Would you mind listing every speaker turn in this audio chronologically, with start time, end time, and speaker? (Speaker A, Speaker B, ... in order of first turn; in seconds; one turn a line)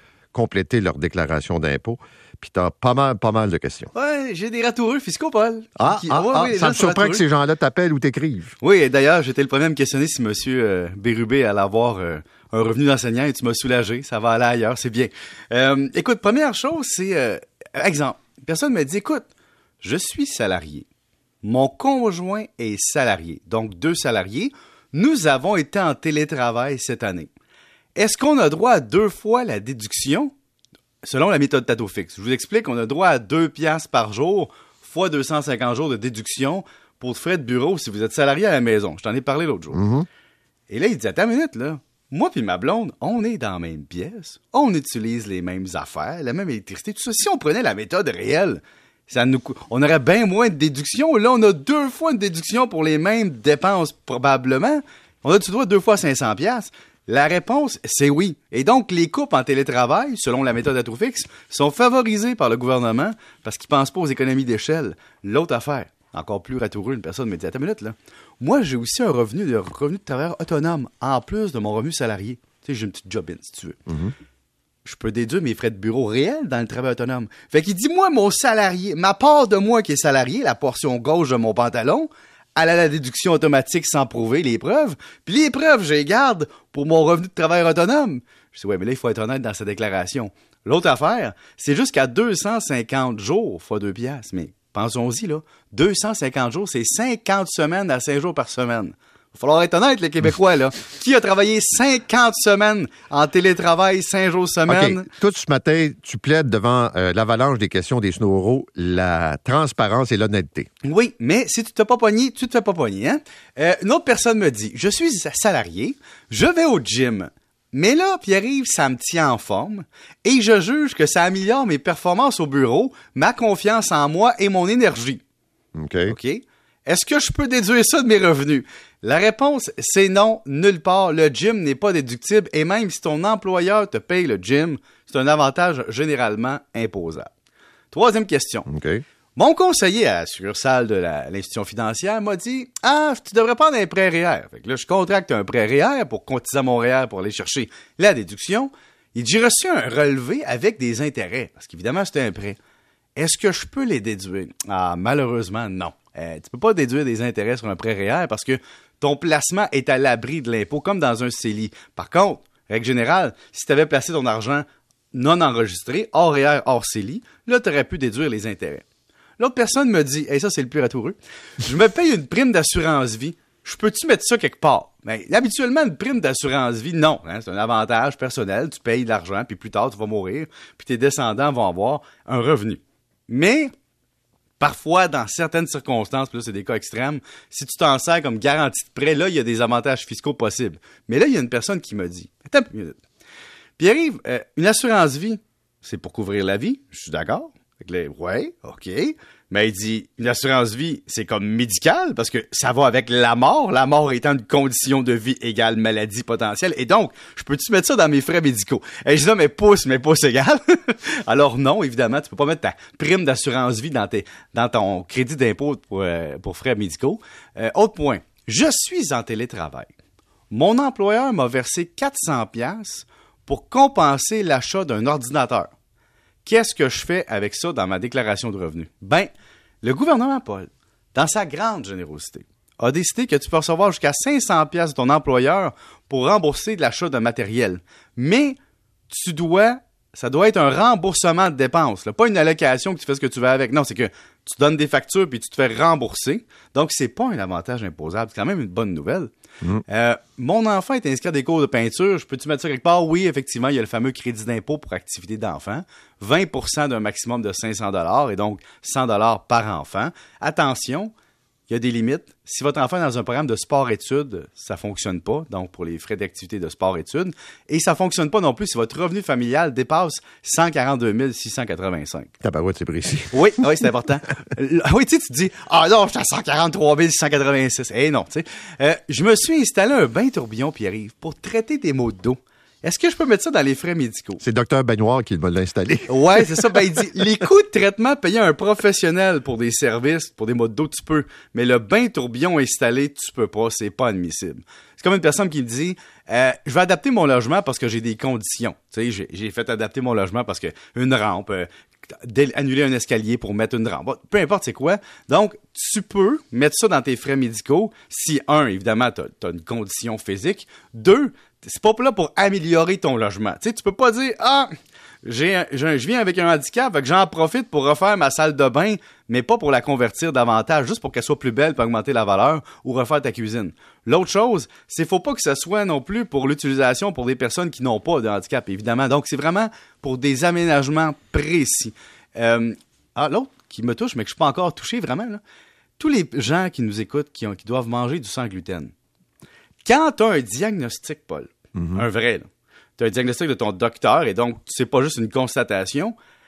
Speaker A: 0.3-3.9
Speaker B: 3.9-7.2
Speaker A: 5.8-8.5
Speaker B: 8.6-19.3
Speaker B: 19.8-20.9
Speaker B: 21.4-27.3
Speaker B: 27.9-30.3
Speaker B: 31.0-39.8
Speaker A: 39.7-40.1
Speaker B: 40.7-73.8
Speaker B: 74.8-105.1
Speaker A: 104.7-110.7
Speaker B: 110.8-125.2
Speaker A: 125.8-126.1
Speaker B: 126.1-137.3
Speaker B: 137.9-138.7
Speaker A: 138.7-139.0
Speaker B: 139.3-152.6
Speaker B: 153.2-168.8
Speaker B: 169.4-183.7
Speaker B: 184.6-193.0
Speaker B: 193.8-219.9
Speaker B: 220.5-225.7
Speaker B: 226.4-229.3
Speaker B: 229.8-238.6
Speaker B: 239.1-249.3
Speaker B: 249.8-261.1
Speaker B: 261.7-272.3
Speaker A: 272.4-273.5
Speaker B: 273.3-284.4
Speaker A: 284.4-286.7
Speaker B: 286.1-314.7
Speaker B: 315.2-335.4
Speaker B: 336.0-338.9
Speaker B: 339.8-346.1
Speaker A: 341.8-342.0